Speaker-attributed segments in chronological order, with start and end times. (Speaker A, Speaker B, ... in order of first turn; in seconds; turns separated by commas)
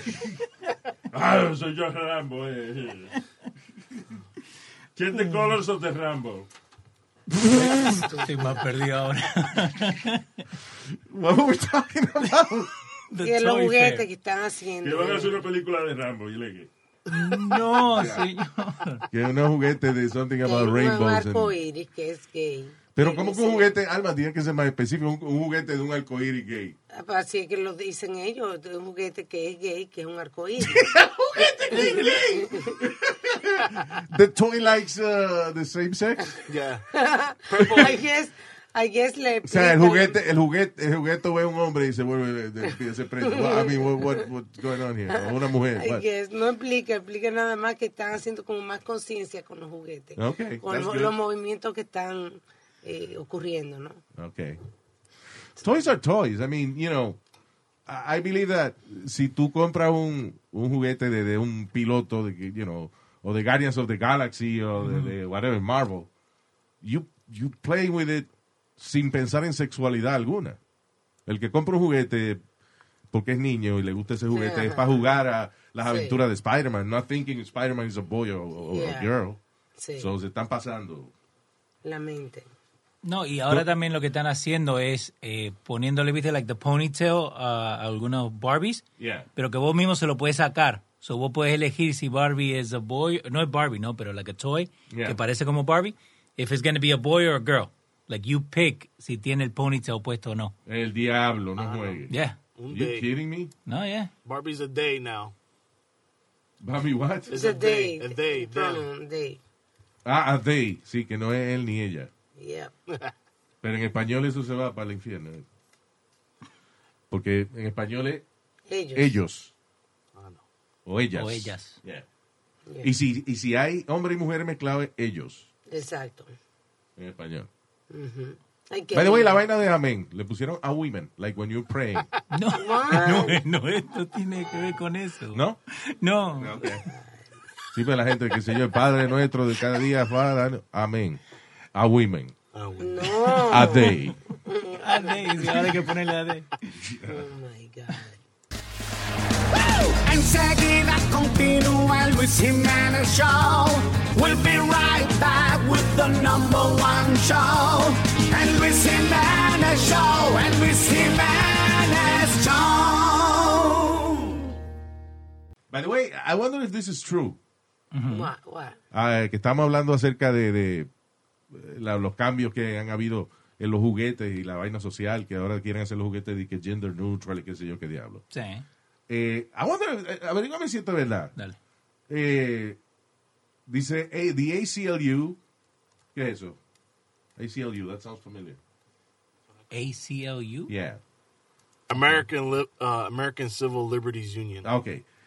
Speaker A: 1.1-3.1, Speaker A: 5.0-6.5, Speaker B: 5.1-5.5, Speaker B: 7.6-10.2, Speaker C: 7.9-8.5, Speaker D: 11.1-12.7, Speaker B: 13.1-14.1, Speaker C: 13.2-15.5, Speaker A: 14.8-16.7, Speaker B: 17.1-19.0, Speaker D: 17.9-18.2, Speaker D: 19.1-21.6, Speaker C: 20.4-23.8, Speaker D: 22.9-26.8, Speaker C: 26.9-32.7, Speaker D: 30.7-33.3, Speaker D: 34.1-36.3, Speaker E: 36.5-36.9, Speaker C: 36.9-40.2, Speaker E: 37.5-38.0, Speaker D: 37.7-37.9, Speaker D: 39.5-46.1, Speaker C: 43.2-44.3, Speaker C: 45.1-54.0, Speaker D: 50.2-51.1, Speaker D: 54.2-54.6, Speaker D: 55.6-57.2, Speaker D: 57.9-66.1, Speaker B: 64.8-65.2, Speaker D: 66.8-70.6, Speaker D: 71.3-72.4, Speaker D: 73.1-79.4, Speaker C: 74.3-75.1, Speaker C: 75.8-76.2, Speaker C: 78.5-79.1, Speaker C: 79.8-80.1, Speaker D: 80.0-81.1, Speaker C: 81.8-82.5, Speaker B: 83.0-88.8, Speaker D: 89.0-89.3, Speaker B: 89.4-100.5, Speaker D: 94.9-95.2, Speaker D: 100.7-102.1, Speaker E: 101.6-103.1, Speaker B: 102.1-102.4, Speaker D: 102.7-103.5, Speaker B: 103.7-104.1, Speaker E: 104.2-105.3, Speaker D: 106.6-107.5, Speaker E: 107.3-108.9, Speaker C: 107.3-109.4, Speaker D: 110.0-112.1, Speaker C: 112.4-112.7, Speaker D: 113.6-115.5, Speaker D: 117.1-118.2, Speaker C: 118.7-119.2, Speaker D: 119.0-119.5, Speaker E: 120.1-120.4, Speaker D: 120.9-122.0, Speaker B: 121.1-121.8, Speaker C: 122.7-122.9, Speaker D: 122.8-125.5, Speaker C: 125.7-126.3, Speaker D: 127.0-127.5, Speaker C: 127.9-129.4, Speaker D: 128.9-132.1, Speaker B: 132.3-135.4, Speaker C: 132.6-133.4, Speaker B: 136.0-136.7, Speaker D: 136.4-136.8, Speaker C: 136.9-137.3, Speaker D: 137.7-141.2, Speaker D: 141.7-142.3, Speaker E: 142.5-143.1, Speaker C: 142.8-145.1, Speaker B: 143.2-144.1, Speaker D: 143.5-144.2, Speaker B: 144.8-146.5, Speaker D: 146.9-147.2, Speaker C: 147.1-148.2, Speaker F: 149.8-164.4, Speaker D: 165.7-167.4, Speaker B: 167.9-168.3, Speaker C: 168.1-168.8, Speaker D: 168.9-170.9, Speaker D: 171.5-178.2, Speaker B: 178.3-178.7, Speaker D: 179.1-181.3, Speaker D: 182.1-182.8, Speaker D: 183.7-185.4, Speaker D: 186.1-186.6, Speaker D: 187.4-188.6, Speaker B: 189.7-190.7, Speaker D: 190.7-191.0, Speaker E: 191.9-194.7, Speaker D: 192.0-192.2, Speaker D: 194.7-195.0